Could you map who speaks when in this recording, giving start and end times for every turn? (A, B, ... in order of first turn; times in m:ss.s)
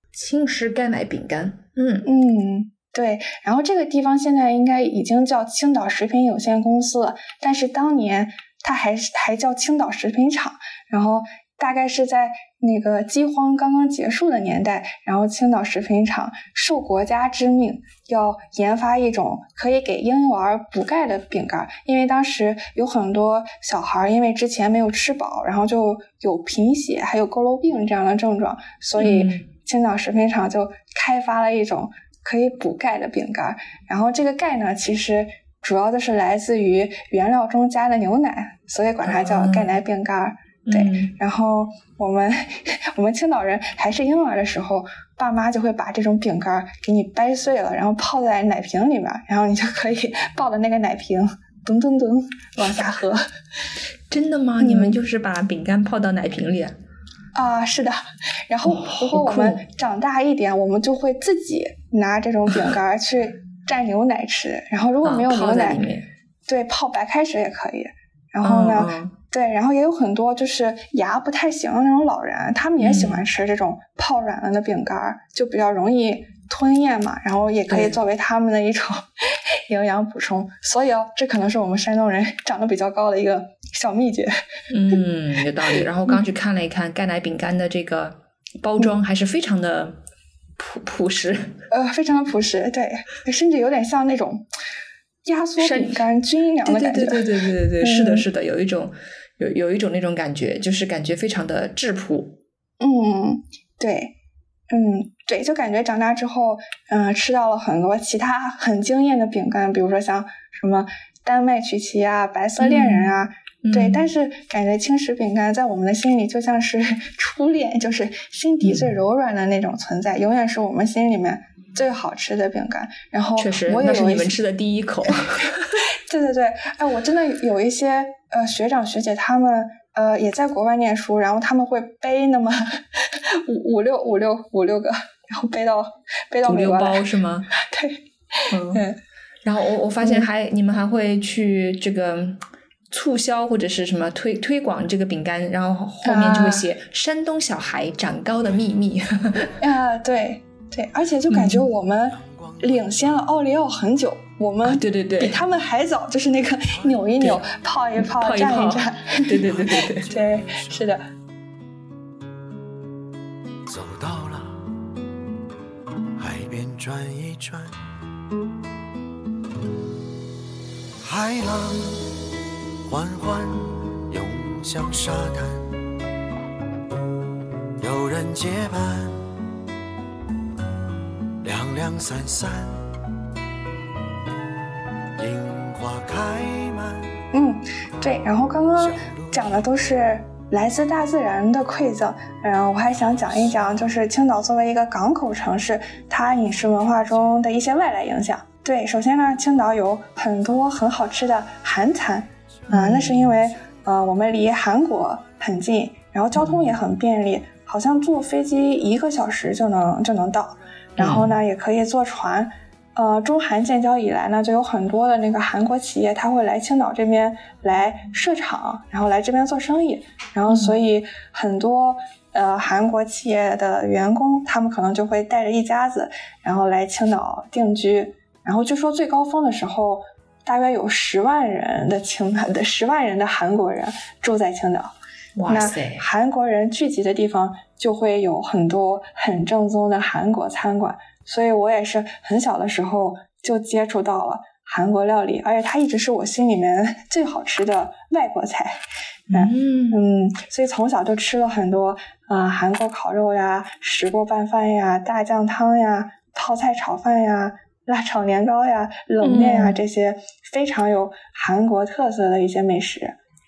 0:00.1-0:02.1 A
0:02.0-0:53.2 B
0:29.0-0:29.5 A
0:39.0-0:39.7 A
0:40.7-0:41.1 A
0:54.1-0:56.7 A
0:54.6-0:55.0 B
0:57.3-1:05.8 B
0:58.6-0:59.6 A
1:05.0-1:06.1 A
1:06.5-1:24.4 B
1:08.4-1:09.1 A
1:12.8-1:13.2 A
1:17.7-1:18.0 A
1:24.7-1:30.0 A
1:30.6-1:31.6 A
1:31.7-1:34.4 B
1:35.2-1:38.2 B
1:35.6-1:36.0 A
1:36.6-1:42.4 A
1:42.8-1:44.1 B
1:44.7-2:04.4 B
1:52.6-1:53.1 A
1:53.6-1:54.1 A
1:58.6-1:58.9 A
2:03.4-2:05.8 A
2:06.0-2:19.0 B
2:16.4-2:17.5 A
2:18.5-2:18.8 A
2:19.4-2:29.5 A
2:26.0-2:26.7 B
2:29.6-2:41.0 B
2:31.3-2:31.6 A
2:32.2-2:33.0 C
2:34.6-2:35.4 A
2:37.2-2:37.4 A
2:38.0-2:40.1 A
2:39.6-2:40.9 C
2:43.6-2:44.6 C
2:46.2-2:47.7 C
2:51.0-2:52.1 C
2:52.9-2:55.7 C
2:57.8-2:59.3 C
3:01.4-3:02.8 C
3:05.2-3:07.1 C
3:07.3-3:54.9 B
3:08.8-3:09.7 C
3:13.1-3:13.8 C
3:16.7-3:17.0 C
3:22.7-3:23.3 A
3:26.3-3:26.7 A
3:31.0-3:31.3 A
3:40.5-3:40.8 A
3:55.4-3:56.0 A
3:55.5-4:23.1 B
4:09.3-4:10.0 A
4:19.2-4:19.8 A